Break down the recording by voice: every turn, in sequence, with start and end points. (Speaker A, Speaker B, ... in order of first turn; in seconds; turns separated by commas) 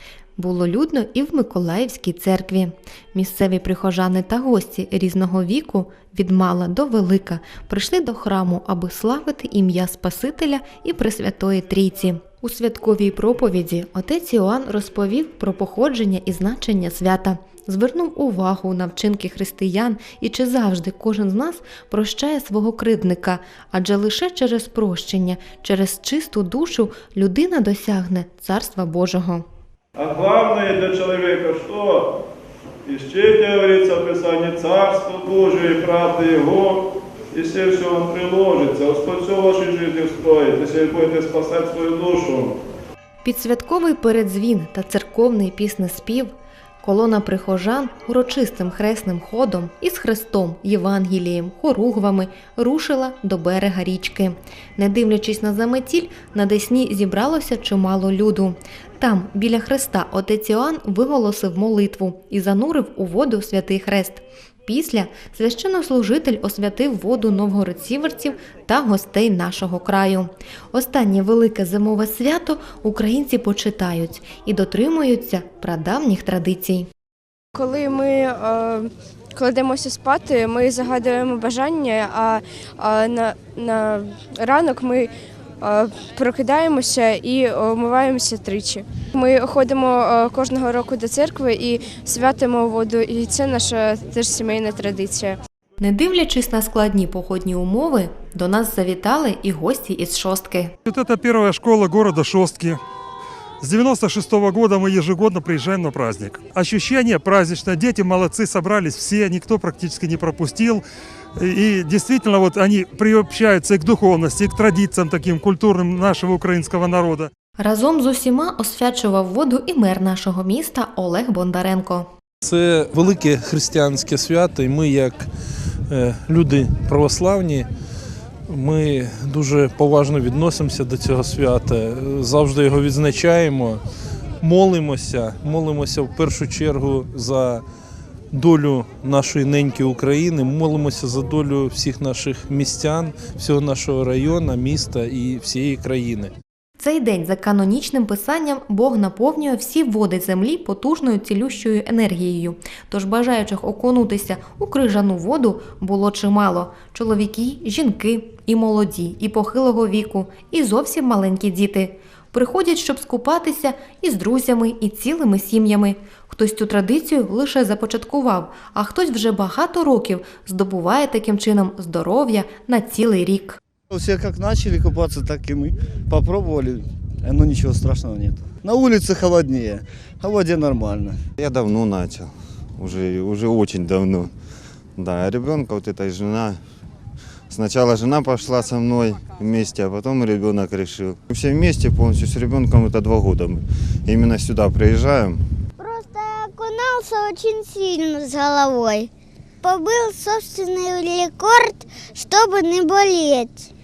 Speaker A: 0.3-29.4, Speaker B: 30.0-32.0, Speaker B: 32.9-36.8, Speaker B: 37.3-42.5, Speaker A: 43.2-76.9, Speaker C: 77.5-95.4, Speaker A: 95.8-100.7, Speaker D: 106.8-110.8, Speaker D: 111.5-114.8, Speaker D: 115.8-117.3, Speaker A: 117.6-122.1, Speaker E: 122.5-125.3, Speaker E: 125.9-127.7, Speaker E: 128.5-133.8, Speaker E: 134.4-137.6, Speaker E: 138.3-146.3, Speaker A: 146.8-173.6, Speaker F: 173.9-181.2, Speaker G: 181.4-184.3, Speaker G: 185.0-186.6, Speaker G: 187.5-195.4, Speaker H: 195.8-199.1, Speaker H: 199.6-203.7